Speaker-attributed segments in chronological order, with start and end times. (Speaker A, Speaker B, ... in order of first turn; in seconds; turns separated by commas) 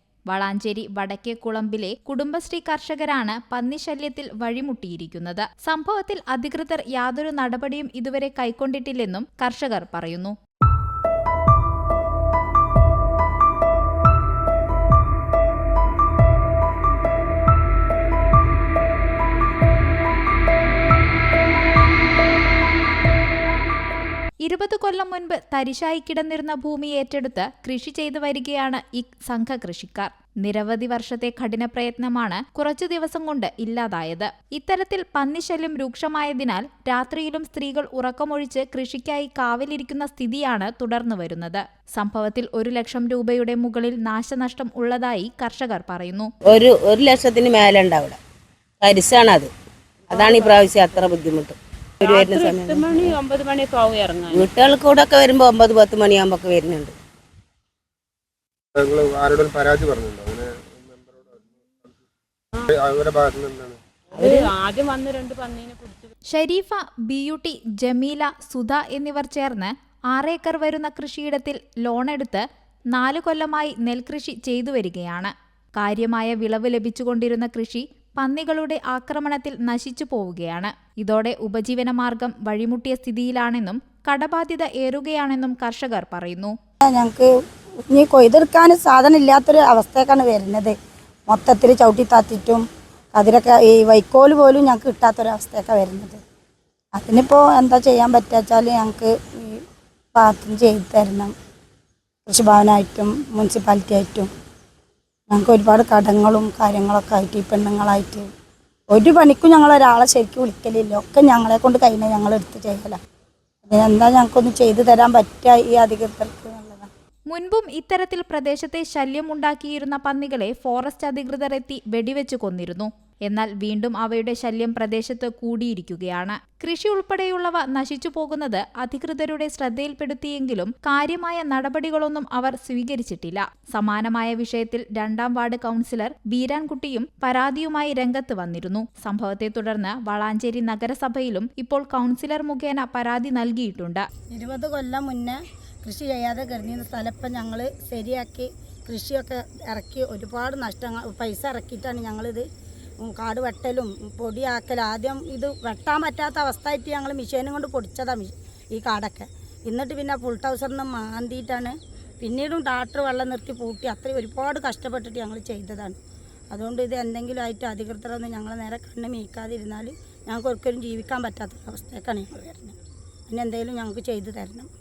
Speaker A: 0.3-10.3, Speaker A: 24.4-46.3, Speaker B: 46.5-48.2, Speaker B: 48.8-49.5, Speaker B: 50.1-53.2, Speaker C: 50.1-50.6, Speaker C: 52.0-54.5, Speaker B: 54.3-56.9, Speaker D: 58.8-61.0, Speaker C: 62.5-62.8, Speaker D: 62.9-63.8, Speaker B: 64.2-64.5, Speaker C: 64.2-66.1, Speaker A: 66.3-86.5, Speaker E: 86.9-87.3, Speaker E: 87.9-90.8, Speaker E: 91.3-92.6, Speaker E: 93.1-96.2, Speaker E: 97.0-99.6, Speaker E: 100.2-101.3, Speaker E: 102.3-104.3, Speaker E: 105.3-108.3, Speaker E: 108.9-113.0, Speaker E: 113.7-116.9, Speaker A: 117.3-144.1, Speaker E: 144.3-152.4, Speaker E: 153.0-166.0, Speaker E: 166.5-172.8, Speaker E: 173.3-174.7